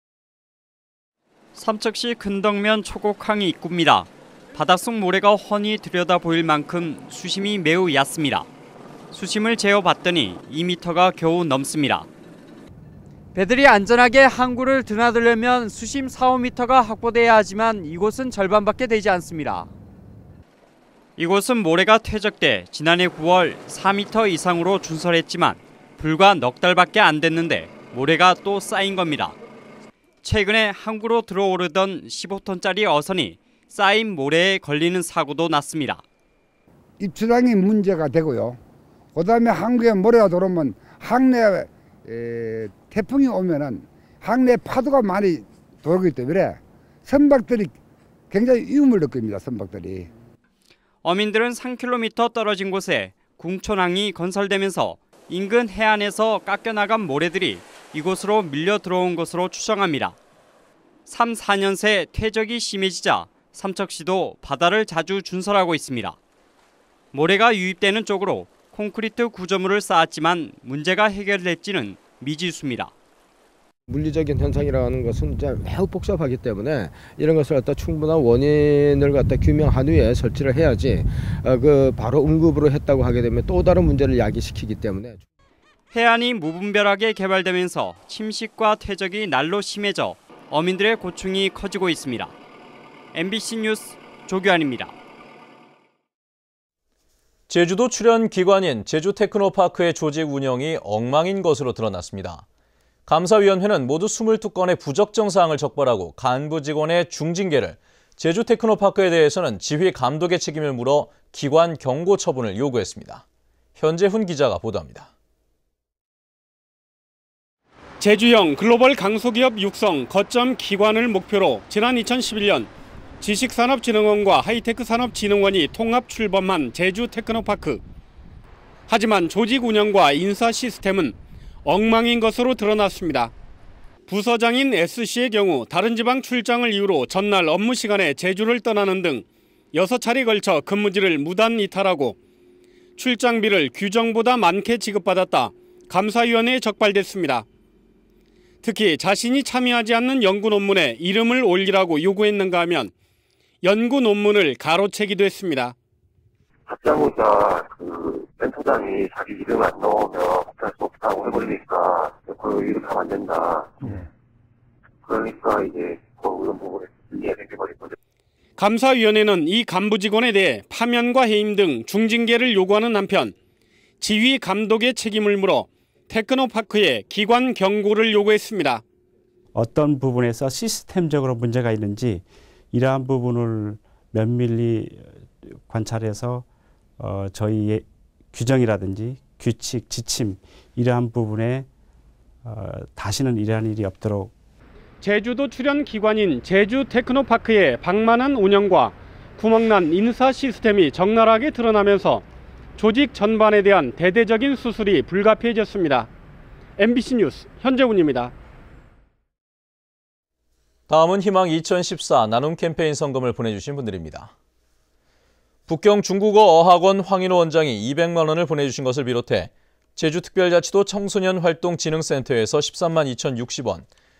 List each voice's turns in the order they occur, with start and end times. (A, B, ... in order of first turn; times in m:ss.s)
0:01.6-0:08.4 A
0:09.1-0:12.1 A
0:13.3-0:19.7 B
0:21.2-0:29.3 A
0:30.2-0:36.0 A
0:33.4-0:33.7 B
0:37.0-0:38.6 C
0:39.1-0:47.7 C
0:48.3-0:50.1 C
0:51.0-1:00.1 A
0:53.1-0:53.4 B
1:01.1-1:06.2 A
1:07.1-1:12.9 A
1:13.9-1:25.2 D
1:25.9-1:32.3 A
1:33.1-1:34.9 A
1:37.5-1:42.4 E
1:43.1-1:53.2 E
1:53.8-1:55.1 E
1:58.0-2:02.7 F
2:03.2-2:07.8 F
2:08.9-2:11.1 F
2:11.6-2:13.3 F
2:14.1-2:22.1 F
2:23.0-2:27.4 F
2:28.6-2:32.9 F
2:33.6-2:35.7 F
2:36.7-2:44.0 G
2:45.0-2:47.9 G
2:48.6-2:53.3 F
2:54.0-2:58.8 F
2:59.6-3:02.0 H
3:03.0-3:03.4 H
3:04.1-3:04.4 H
3:05.7-3:06.2 H
3:07.0-3:07.7 H
3:08.3-3:11.6 H
3:12.5-3:14.3 H
3:15.0-3:22.2 F
3:22.8-3:26.1 F
3:26.8-3:28.3 F
3:30.9-3:34.3 E
3:35.7-3:43.8 E